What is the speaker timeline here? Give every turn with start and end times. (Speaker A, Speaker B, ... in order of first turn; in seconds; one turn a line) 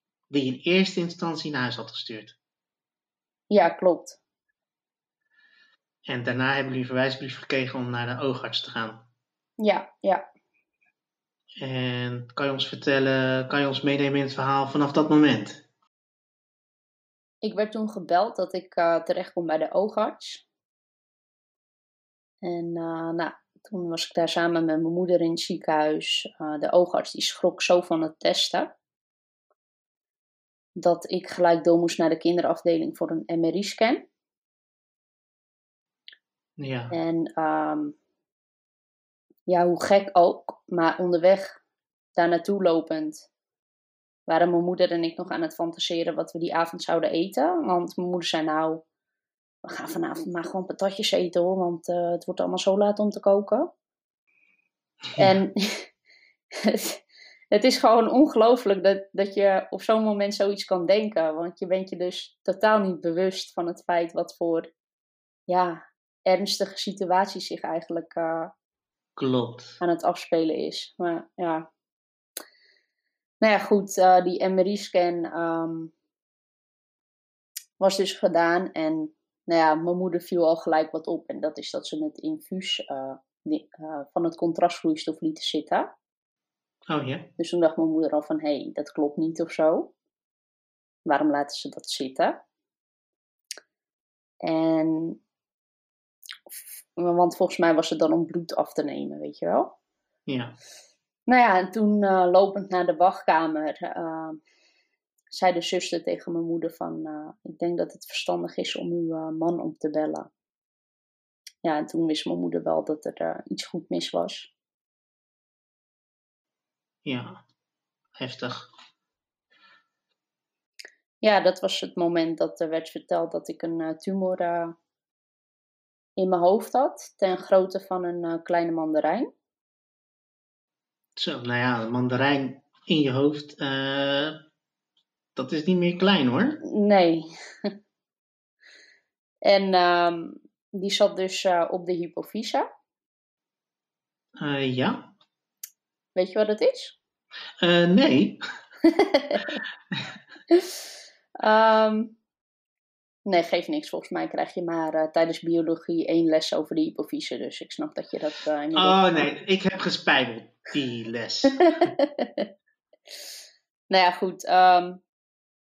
Speaker A: 0.3-2.4
Speaker B: 3.5-4.2
Speaker A: 6.1-9.1
Speaker B: 9.6-10.3
Speaker A: 11.6-15.6
Speaker B: 17.4-20.4
Speaker B: 22.4-28.7
Speaker B: 30.8-34.1
Speaker A: 36.6-37.0
Speaker B: 36.9-38.0
Speaker B: 39.5-41.6
Speaker B: 42.2-43.3
Speaker B: 44.3-48.8
Speaker B: 49.7-53.7
Speaker B: 55.2-55.9
Speaker B: 56.5-64.7
Speaker B: 65.5-68.5
Speaker A: 69.2-69.8
Speaker B: 69.8-71.7
Speaker B: 73.4-75.9
Speaker B: 77.8-85.9
Speaker A: 86.9-87.3
Speaker B: 87.4-89.9
Speaker B: 91.0-92.4
Speaker B: 94.4-95.2
Speaker B: 97.0-99.7
Speaker A: 100.3-100.6
Speaker B: 101.3-104.4
Speaker B: 105.3-110.3
Speaker B: 111.6-114.5
Speaker A: 117.0-117.4
Speaker A: 118.2-118.7
Speaker B: 121.2-124.8
Speaker B: 126.2-129.3
Speaker A: 131.2-134.4
Speaker A: 135.4-136.6
Speaker B: 136.6-137.7
Speaker B: 139.4-142.7
Speaker A: 144.4-145.1
Speaker B: 146.2-147.0
Speaker A: 147.6-148.4
Speaker B: 148.8-149.6
Speaker B: 151.4-152.2
Speaker B: 153.2-159.3
Speaker A: 158.8-161.9
Speaker B: 161.6-162.5
Speaker B: 163.9-165.0